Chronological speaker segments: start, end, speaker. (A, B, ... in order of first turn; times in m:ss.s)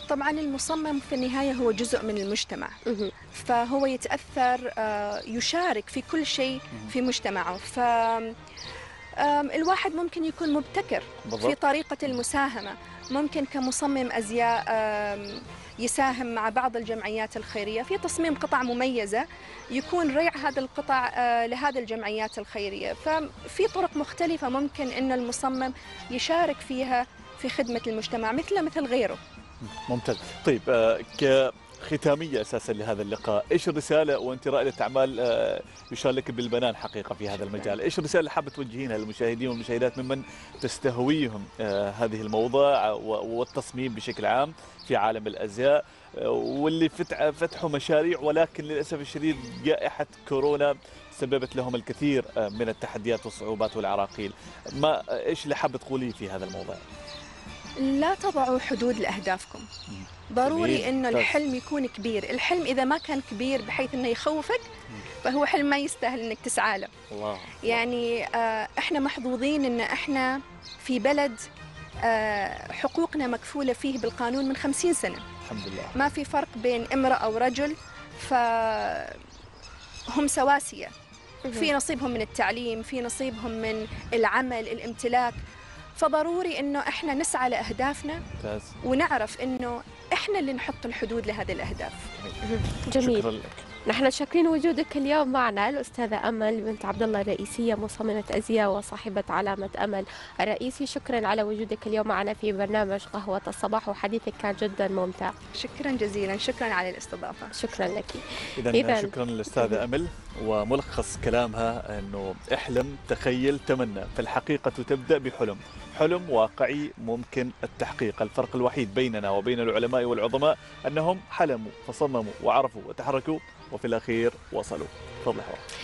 0:00.1-0:02.8 A
0:02.9-0:03.1 B
0:03.3-0:08.4 A
0:09.2-0:29.2 A
0:11.2-0:11.6 C
0:29.6-0:56.9 C
0:57.8-0:59.7 A
0:59.9-1:01.4 C
1:00.3-1:04.6 A
1:05.2-1:06.9 A
1:07.1-1:07.8 C
1:07.6-1:11.4 A
1:12.0-1:15.2 A
1:15.4-1:16.1 C
1:16.0-1:19.2 A
1:20.1-1:20.9 A
1:21.5-1:21.7 B
1:21.5-1:25.4 A
1:26.0-1:28.2 A
1:28.4-1:28.8 C
1:28.8-1:32.1 A
1:32.1-1:32.4 C
1:32.4-1:33.3 B
1:33.0-1:33.7 C
1:33.9-1:45.4 B
1:45.6-1:47.5 A
1:47.5-1:49.8 B
1:48.6-2:05.6 C